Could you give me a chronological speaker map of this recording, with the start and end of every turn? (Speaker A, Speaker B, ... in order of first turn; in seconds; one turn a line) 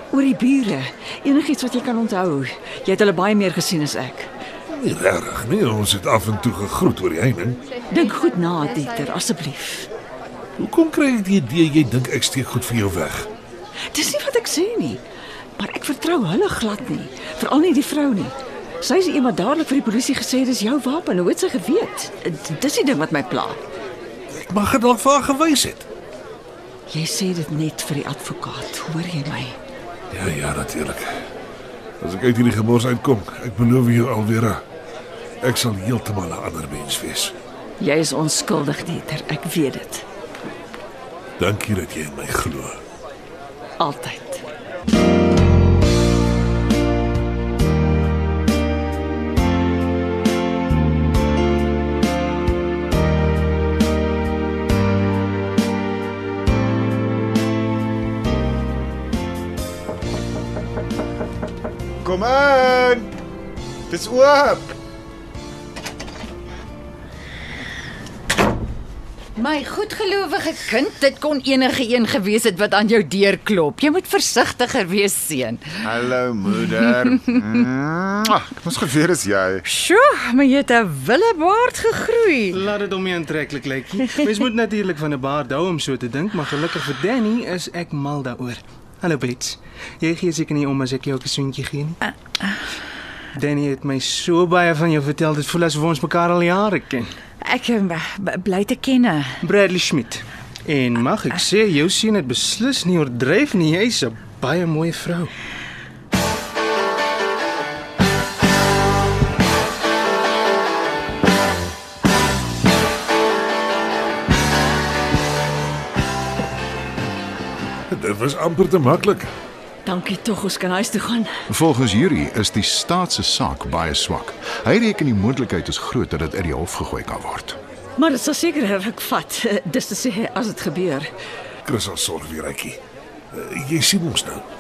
Speaker A: 0.1-4.3
Speaker B: 4.7-7.6
Speaker A: 7.9-9.9
Speaker B: 10.6-13.3
Speaker A: 13.9-15.0
Speaker A: 15.6-23.6
Speaker B: 24.3-25.9
Speaker A: 26.9-29.6
Speaker B: 30.1-31.1
Speaker B: 32.0-34.6
Speaker B: 35.4-37.3
Speaker A: 37.8-40.0
Speaker B: 41.4-42.8
Speaker A: 43.8-44.4
Speaker C: 62.0-63.1
Speaker C: 63.9-64.8
Speaker D: 69.4-75.8
Speaker C: 75.8-79.6
Speaker D: 79.7-82.6
Speaker E: 82.5-92.0
Speaker E: 93.4-97.1
Speaker D: 97.4-99.4
Speaker E: 99.4-105.3
Speaker B: 117.9-119.3
Speaker A: 119.8-121.3
Speaker F: 121.5-127.6
Speaker A: 128.0-131.1
Speaker B: 131.7-132.8
Speaker B: 133.3-134.4